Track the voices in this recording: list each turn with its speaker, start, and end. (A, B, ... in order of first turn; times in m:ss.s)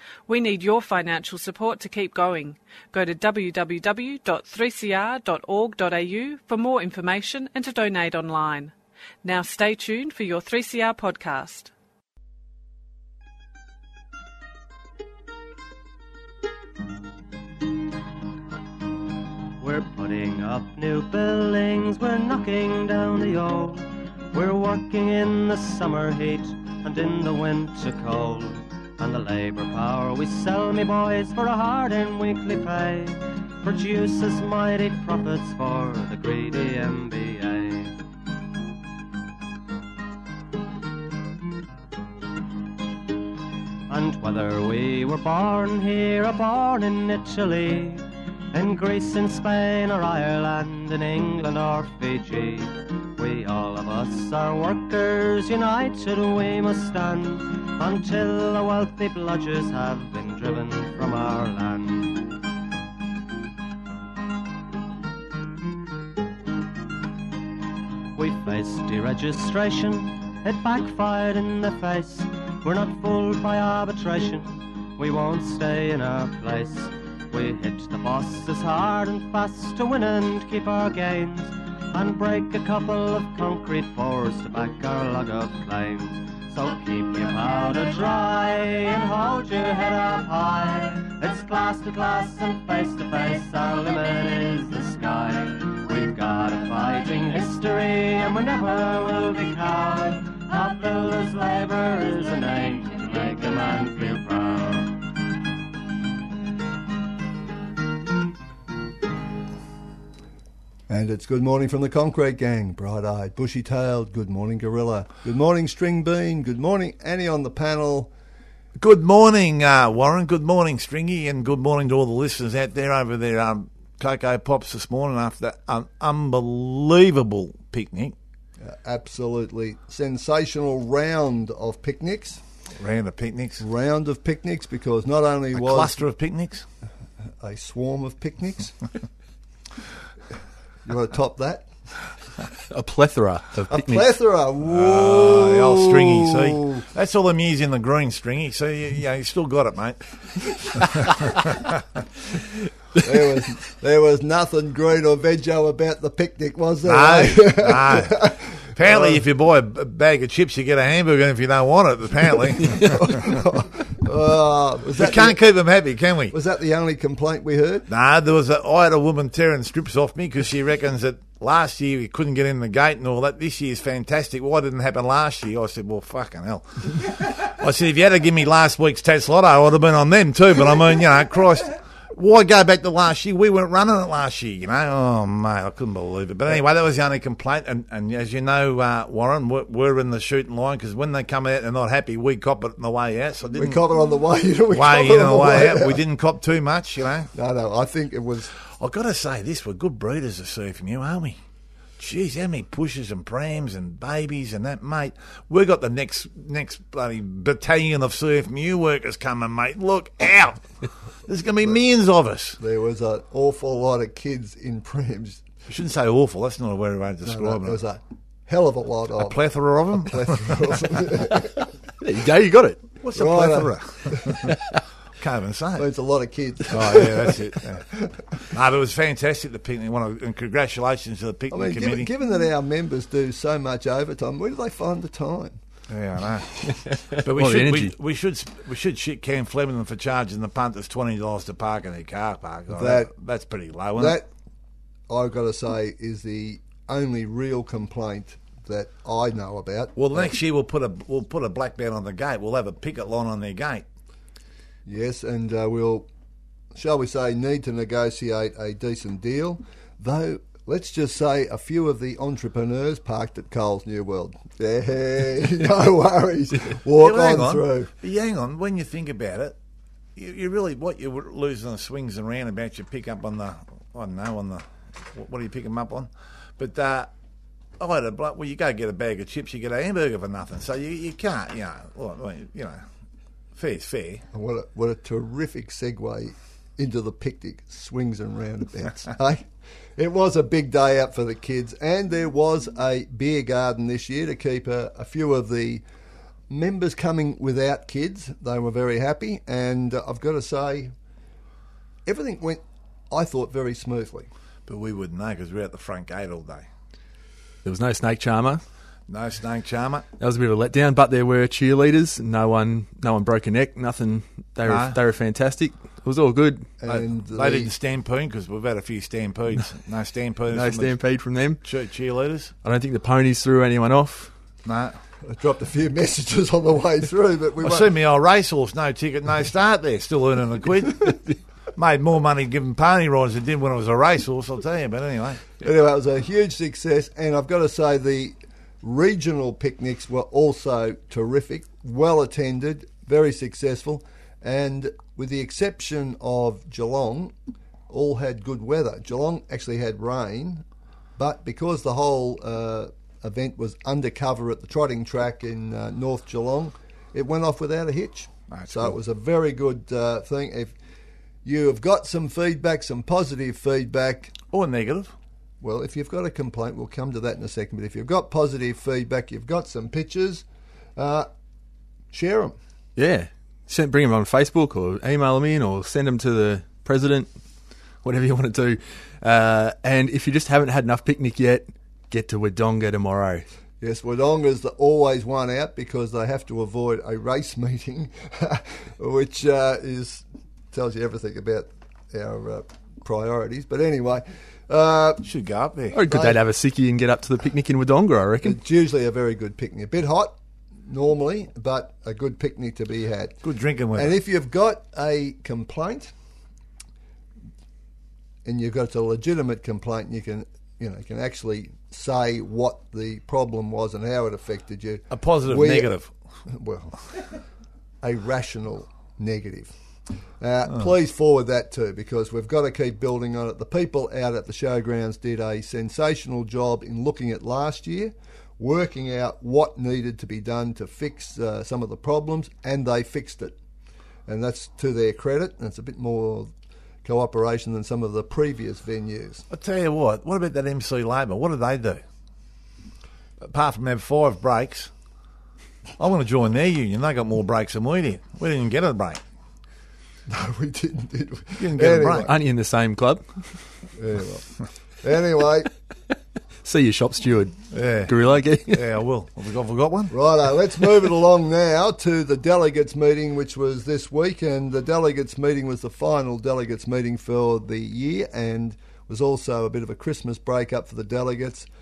0:00.3-0:11.7 A
0:19.6-0:37.9 B
0:43.9-1:02.3 B
1:08.2-1:45.0 B
1:50.9-1:58.1 C
1:58.8-2:08.1 D
2:08.6-2:12.4 C
2:12.8-2:13.6 D
2:13.6-2:15.9 C
2:15.5-2:16.6 D
2:17.4-2:18.8 C
2:20.8-2:21.7 C
2:22.6-2:24.1 E
2:23.7-2:26.8 C
2:24.6-2:31.7 D
2:33.0-2:39.2 C
2:36.8-2:43.1 D
2:42.7-2:43.0 E
2:42.8-2:45.4 C
2:44.9-2:46.4 D
2:46.3-2:47.9 C
2:47.9-3:13.8 D
3:13.6-3:16.0 C
3:14.7-3:17.3 D
3:17.3-3:18.5 C
3:18.6-3:21.4 D
3:22.0-3:30.7 D
3:31.2-3:32.6 D
3:32.6-3:35.4 C
3:35.7-3:37.8 D
3:37.2-3:39.4 C
3:39.2-3:40.8 D
3:40.0-3:41.6 C
3:42.0-3:42.8 E
3:43.0-3:44.5 D
3:43.1-3:44.5 C
3:45.2-3:45.8 D
3:45.8-3:48.2 C
3:46.7-3:47.9 D
3:48.4-3:52.1 D
3:51.5-3:55.6 C
3:55.9-4:04.2 D
3:56.7-3:57.9 E
4:02.7-4:03.1 C
4:04.0-4:04.3 C
4:05.1-4:10.3 C
4:10.0-4:13.8 D
4:14.8-4:16.1 C
4:16.7-4:27.9 C
4:27.0-4:29.6 D
4:30.2-4:37.1 D
4:37.8-4:42.8 D
4:43.6-4:44.2 D
4:44.3-4:49.4 C
4:50.0-4:55.8 C
4:56.5-5:00.9 C
5:02.0-5:04.3 C
5:04.7-5:06.7 D
5:07.6-5:08.6 E
5:09.1-5:10.0 D
5:10.2-5:16.7 E
5:14.6-5:15.0 D
5:16.8-5:17.7 C
5:16.8-5:21.0 D
5:20.5-5:21.6 E
5:21.6-5:22.5 D
5:22.6-5:24.3 E
5:24.6-5:25.0 D
5:25.2-5:27.9 C
5:27.6-5:31.2 D
5:31.8-5:35.5 D
5:35.6-5:47.3 C
5:47.9-5:50.6 C
5:51.2-6:00.7 C
5:58.5-5:59.0 D
6:01.4-6:04.3 C
6:04.5-6:05.1 D
6:05.6-6:10.4 C
6:11.0-6:11.3 C
6:12.1-6:12.6 C
6:13.0-6:17.3 E
6:18.0-6:23.5 E
6:23.8-6:35.2 C
6:35.2-6:36.0 D
6:35.9-6:38.6 E
6:36.0-6:36.4 C
6:38.4-6:40.3 C
6:40.8-6:43.4 C
6:43.4-6:44.2 D
6:43.9-6:46.1 C
6:48.4-6:57.4 C
6:55.1-6:56.1 D
6:58.0-6:59.7 C
7:00.4-7:13.5 C
7:14.3-7:16.5 C
7:17.0-7:19.4 C
7:19.5-7:22.0 D
7:23.4-7:24.9 D
7:26.0-7:29.2 D
7:30.3-7:32.3 C
7:31.6-7:32.3 D
7:32.2-7:33.7 E
7:34.0-7:35.7 C
7:36.6-7:38.8 E
7:37.7-7:38.1 D
7:38.7-7:40.1 D
7:40.1-7:51.7 C